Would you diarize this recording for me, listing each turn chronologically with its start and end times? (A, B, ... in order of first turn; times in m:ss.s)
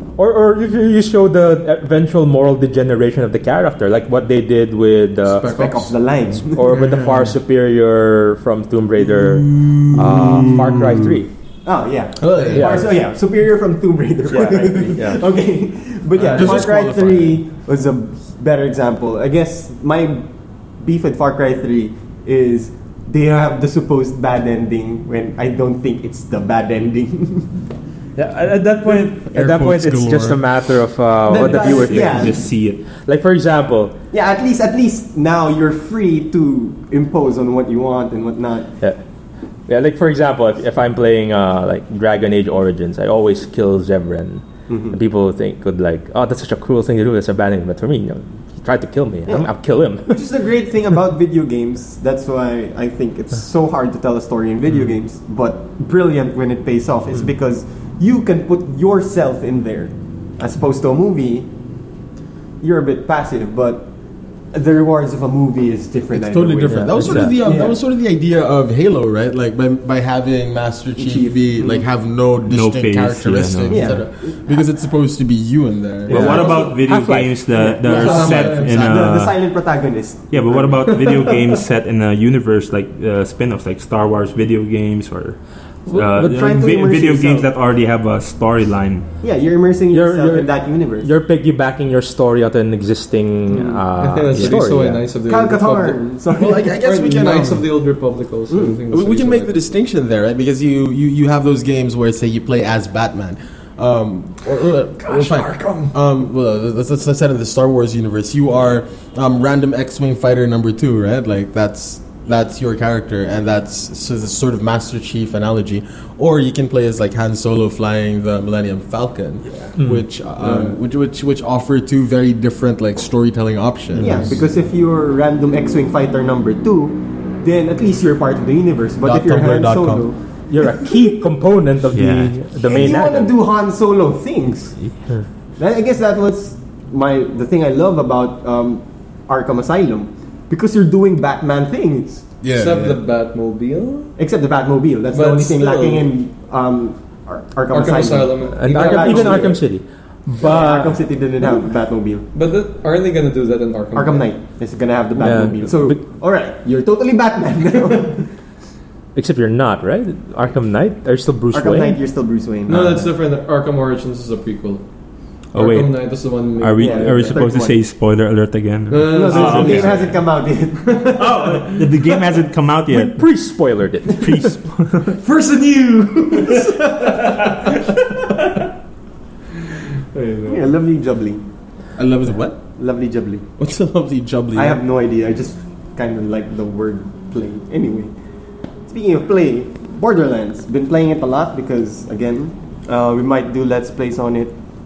0:00.2-0:05.5 A
0:05.3-0:05.9 B
0:05.4-0:06.8 C
0:06.4-0:11.3 A
0:06.9-0:07.2 D
0:09.2-0:11.2 D
0:11.6-0:20.3 C
0:12.2-0:12.9 D
0:12.5-0:12.8 A
0:14.3-0:15.2 A
0:16.2-0:17.4 D
0:16.2-0:16.6 B
0:20.8-0:27.6 C
0:28.2-0:34.0 A
0:28.8-0:30.4 D
0:31.3-0:32.4 C
0:31.3-0:32.8 E
0:34.1-0:38.7 C
0:39.7-0:50.3 A
0:44.7-0:45.0 C
0:49.3-0:49.5 C
0:50.0-1:01.5 C
1:02.6-1:03.9 C
1:04.5-1:07.8 C
1:06.1-1:16.4 D
1:06.6-1:07.5 A
1:11.0-1:11.8 C
1:12.4-1:14.0 E
1:13.7-1:14.5 C
1:16.1-1:16.8 C
1:16.1-1:19.4 E
1:16.1-1:17.4 A
1:17.6-1:21.0 C
1:17.8-1:19.0 D
1:17.9-1:18.8 B
1:20.3-1:29.0 E
1:20.9-1:21.5 B
1:25.9-1:27.5 C
1:29.2-1:31.1 C
1:29.9-1:35.0 A
1:33.5-1:33.8 C
1:34.0-1:39.6 B
1:34.4-1:34.6 C
1:35.2-1:36.7 C
1:36.3-1:37.6 D
1:38.5-1:38.8 C
1:38.9-2:04.4 D
1:45.0-1:45.9 B
1:59.8-2:00.1 A
2:04.0-2:10.2 C
2:09.0-2:10.1 D
2:10.5-2:13.3 A
2:11.9-2:12.5 E
2:12.6-2:14.8 C
2:15.6-2:22.2 C
2:22.4-2:23.0 D
2:22.5-2:24.2 B
2:24.2-2:29.6 C
2:25.1-2:26.1 B
2:27.7-2:29.6 B
2:28.5-2:31.0 A
2:30.4-2:32.2 C
2:32.3-2:34.3 B
2:33.9-2:38.3 C
2:35.2-2:36.0 A
2:39.1-2:42.0 A
2:41.5-2:43.0 C
2:42.7-2:44.8 B
2:45.5-2:47.5 B
2:45.5-2:50.2 E
2:46.8-2:47.8 C
2:48.9-2:50.2 B
2:49.1-2:51.0 C
2:50.8-2:52.3 B
2:51.2-2:53.2 E
2:52.9-2:54.6 A
2:54.1-2:55.2 E
2:55.2-2:58.6 B
3:00.1-3:00.7 B
3:00.5-3:01.4 C
3:02.0-3:02.6 D
3:02.8-3:03.4 C
3:03.6-3:04.8 D
3:04.5-3:08.1 C
3:08.9-3:14.6 C